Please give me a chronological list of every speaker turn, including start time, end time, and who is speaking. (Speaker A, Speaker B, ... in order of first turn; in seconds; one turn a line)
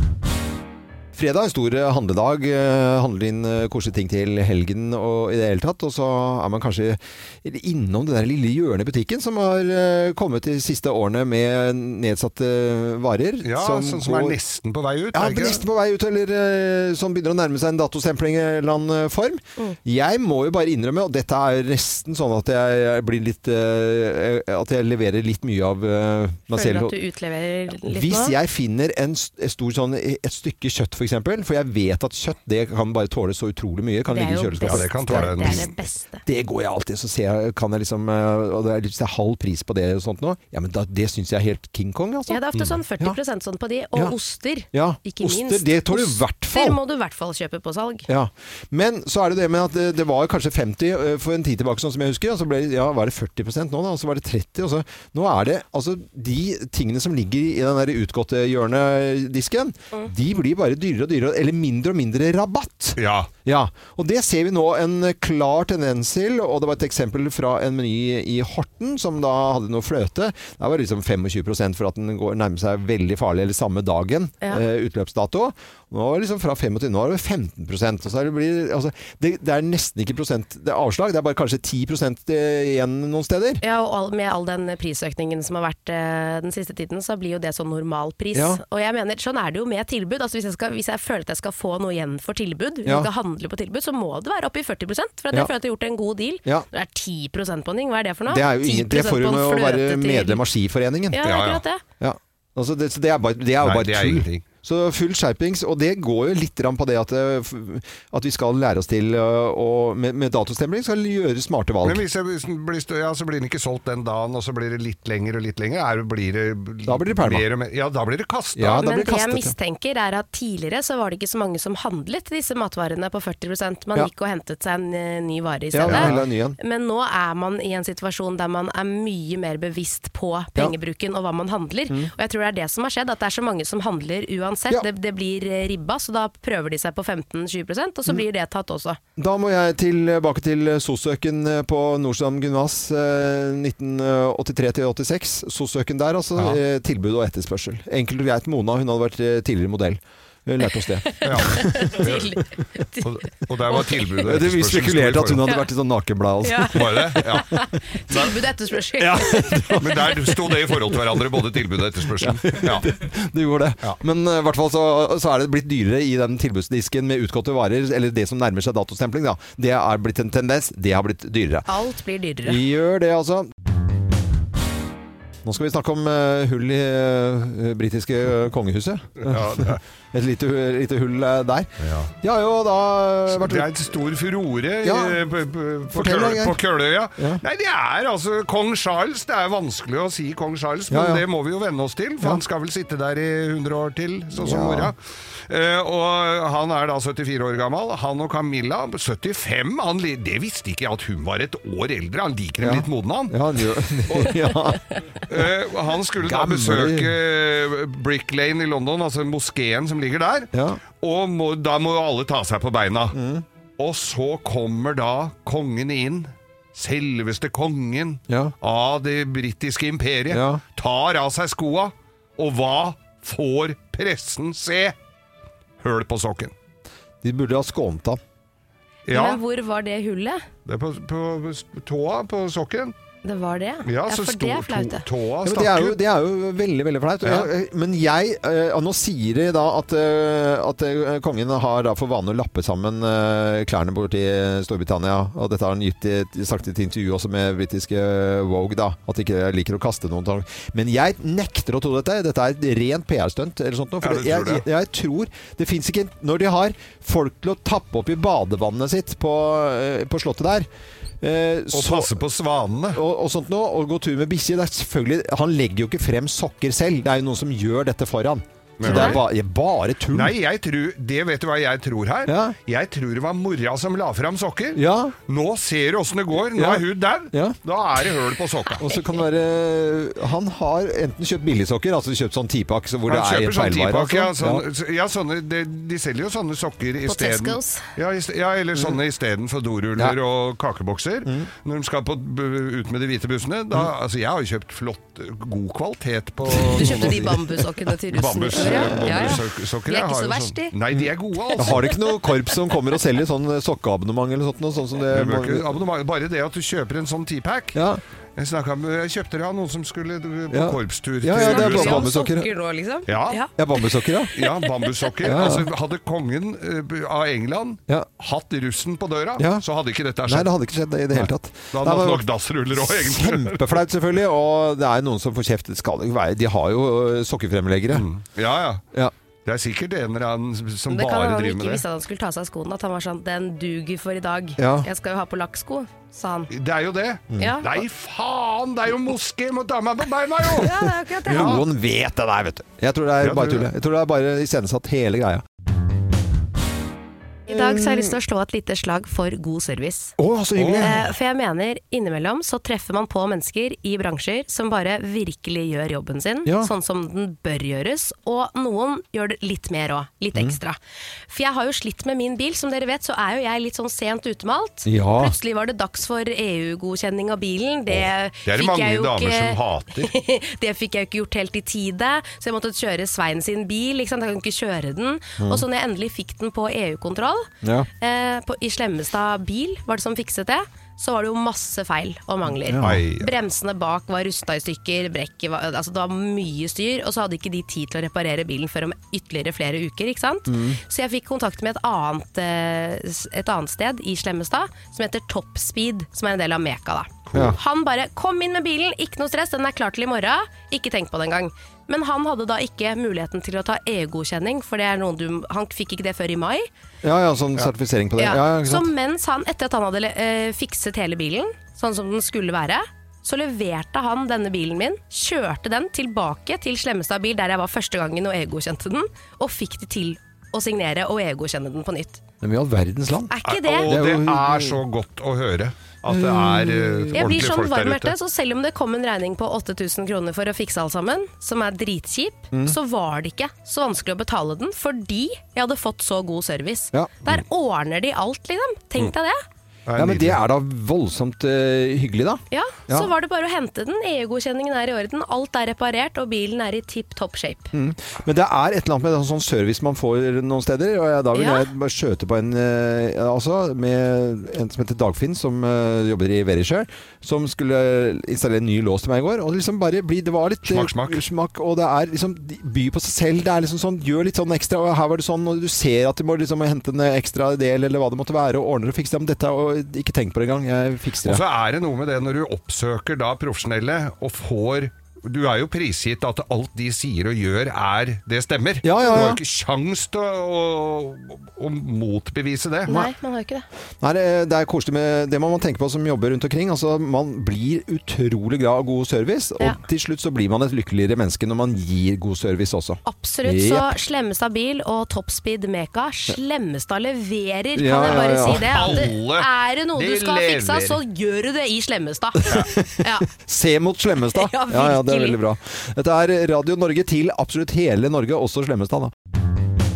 Speaker A: 1.1-14.4
Speaker B: 13.4-15.6
Speaker A: 15.1-26.9
Speaker C: 26.5-28.3
Speaker A: 27.8-35.7
Speaker C: 34.1-36.2
Speaker B: 34.6-35.7
Speaker A: 36.2-42.4
Speaker C: 42.3-48.1
Speaker A: 44.7-46.8
Speaker A: 48.1-83.6
Speaker B: 63.0-63.3
Speaker C: 83.6-100.4
Speaker A: 88.3-88.6
Speaker A: 92.8-93.1
Speaker A: 98.3-101.3
Speaker C: 101.1-101.8
Speaker B: 101.2-101.6
Speaker A: 102.0-112.0
Speaker B: 103.6-104.4
Speaker B: 111.8-118.8
Speaker A: 116.8-117.5
Speaker A: 118.5-119.5
Speaker C: 118.8-139.0
Speaker A: 125.7-126.6
Speaker B: 125.8-126.2
Speaker A: 139.2-152.6
Speaker C: 151.1-153.1
Speaker B: 151.2-152.3
Speaker B: 153.0-155.4
Speaker C: 153.7-154.2
Speaker A: 154.2-157.4
Speaker C: 156.4-160.1
Speaker B: 156.7-157.6
Speaker B: 158.1-158.3
Speaker A: 159.0-160.4
Speaker B: 159.8-162.9
Speaker A: 160.9-161.4
Speaker A: 162.2-171.7
Speaker C: 171.7-172.6
Speaker A: 172.4-173.5
Speaker A: 175.4-183.9
Speaker B: 179.2-179.8
Speaker B: 181.8-182.1
Speaker B: 183.3-203.4
Speaker A: 184.8-185.2
Speaker A: 185.9-186.6
Speaker A: 187.2-187.4
Speaker A: 190.9-191.2
Speaker A: 194.3-194.9
Speaker A: 202.6-204.8
Speaker B: 204.1-204.4
Speaker B: 205.3-213.2
Speaker A: 206.2-207.2
Speaker A: 210.5-210.8
Speaker A: 213.1-213.4
Speaker B: 213.8-224.9
Speaker A: 218.3-218.5
Speaker A: 220.3-220.6
Speaker B: 225.8-226.5
Speaker A: 227.2-228.2
Speaker B: 229.1-229.4
Speaker C: 229.1-230.4
Speaker B: 230.7-232.9
Speaker C: 233.2-235.0
Speaker B: 233.8-236.0
Speaker A: 235.4-260.6
Speaker B: 237.2-237.5
Speaker B: 254.0-254.6
Speaker A: 261.2-262.2
Speaker B: 261.7-263.0
Speaker A: 262.9-270.3
Speaker B: 268.8-269.2
Speaker C: 268.9-269.1
Speaker B: 270.1-278.8
Speaker A: 272.2-272.5
Speaker A: 274.7-275.1
Speaker A: 276.5-277.6
Speaker A: 278.8-284.6
Speaker B: 283.1-297.3
Speaker C: 287.1-287.8
Speaker A: 296.5-297.4
Speaker C: 296.7-300.7
Speaker B: 298.1-301.9
Speaker A: 298.5-299.4
Speaker A: 300.9-305.8
Speaker C: 301.6-301.9
Speaker B: 305.1-307.8
Speaker A: 307.7-308.0
Speaker B: 308.4-312.1
Speaker A: 310.5-312.5
Speaker C: 311.4-313.5
Speaker B: 313.1-313.4
Speaker A: 313.6-314.3
Speaker C: 314.3-314.9
Speaker B: 314.3-320.5
Speaker A: 315.2-315.7
Speaker A: 319.4-319.6
Speaker A: 320.2-328.1
Speaker B: 321.1-323.8
Speaker B: 327.9-328.8
Speaker B: 329.4-331.8
Speaker C: 330.9-336.5
Speaker A: 334.6-334.9
Speaker B: 336.5-341.6
Speaker C: 337.4-337.7
Speaker C: 340.6-341.6
Speaker A: 341.2-345.4
Speaker B: 343.2-343.7
Speaker C: 347.5-350.1
Speaker A: 347.5-348.1
Speaker A: 350.2-351.0
Speaker B: 350.6-350.9
Speaker C: 350.8-360.8
Speaker A: 356.4-356.7
Speaker C: 361.3-406.7
Speaker A: 364.8-365.3
Speaker B: 368.4-370.1
Speaker A: 375.4-375.6
Speaker A: 377.6-377.9
Speaker A: 382.6-383.1
Speaker B: 382.8-383.3
Speaker A: 390.5-390.8
Speaker A: 407.0-408.9
Speaker C: 408.2-422.2
Speaker A: 422.4-423.3
Speaker C: 423.3-423.9
Speaker B: 423.4-428.1
Speaker A: 423.8-424.8
Speaker A: 426.1-427.4
Speaker C: 427.1-439.4
Speaker A: 436.9-437.3
Speaker B: 439.9-440.4
Speaker A: 439.9-443.1
Speaker C: 442.5-447.7
Speaker A: 447.7-471.4
Speaker C: 451.3-451.7
Speaker B: 460.6-461.2
Speaker B: 471.2-482.9
Speaker A: 478.8-479.4
Speaker C: 482.9-483.6
Speaker A: 484.0-493.9
Speaker C: 493.0-503.3
Speaker A: 497.8-499.0
Speaker B: 498.1-501.0
Speaker A: 502.4-509.1
Speaker C: 504.4-505.4